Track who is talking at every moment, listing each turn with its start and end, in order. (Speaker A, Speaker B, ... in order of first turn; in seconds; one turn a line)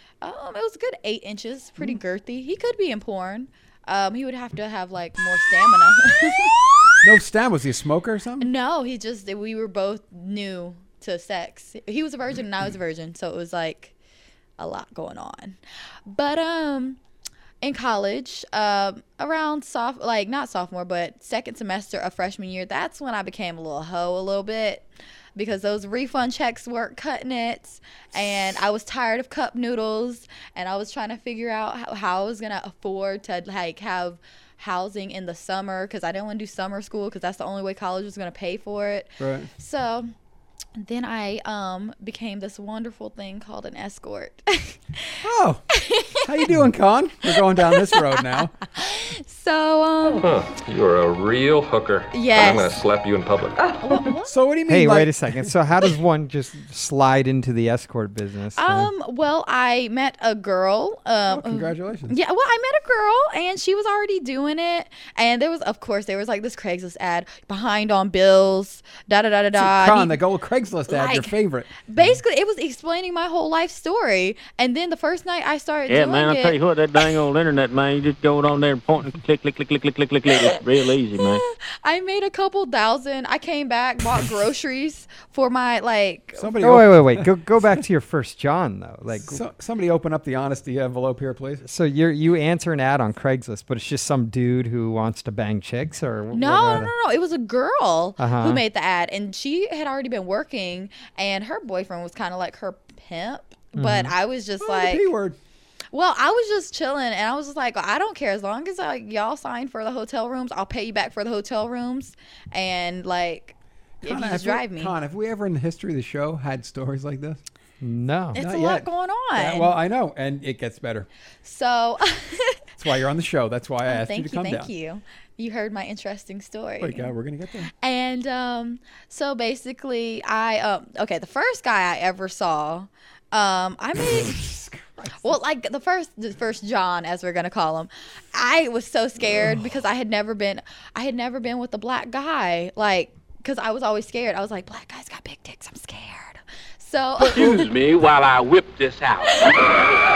Speaker A: 0.2-7.0
Speaker B: 7.0-8.5
Speaker A: 8.4-13.9
Speaker A: 14.6-17.0
Speaker A: 17.6-40.1
Speaker B: 39.2-39.5
Speaker A: 40.8-45.2
Speaker B: 45.2-45.7
Speaker A: 45.7-46.2
Speaker B: 46.2-48.6
Speaker A: 47.4-48.0
Speaker A: 48.7-50.3
Speaker C: 50.2-53.8
Speaker A: 52.1-52.8
Speaker A: 53.8-54.4
Speaker B: 54.0-55.5
Speaker D: 54.7-58.9
Speaker A: 58.6-70.2
Speaker B: 61.3-62.1
Speaker B: 69.6-71.7
Speaker A: 70.9-76.6
Speaker E: 75.9-81.4
Speaker A: 81.2-86.5
Speaker B: 86.4-87.3
Speaker D: 86.6-89.4
Speaker B: 89.2-91.6
Speaker D: 91.6-96.9
Speaker A: 96.3-105.1
Speaker D: 98.2-98.6
Speaker D: 103.8-104.1
Speaker B: 104.6-105.4
Speaker A: 105.9-115.0
Speaker B: 114.0-117.4
Speaker D: 117.8-118.4
Speaker A: 118.3-119.7
Speaker B: 118.3-121.1
Speaker A: 121.4-122.6
Speaker B: 122.8-124.7
Speaker A: 123.9-127.1
Speaker B: 126.8-127.7
Speaker A: 127.7-134.5
Speaker B: 134.0-135.4
Speaker A: 135.2-147.7
Speaker B: 147.2-147.7
Speaker F: 147.3-149.7
Speaker A: 149.3-149.6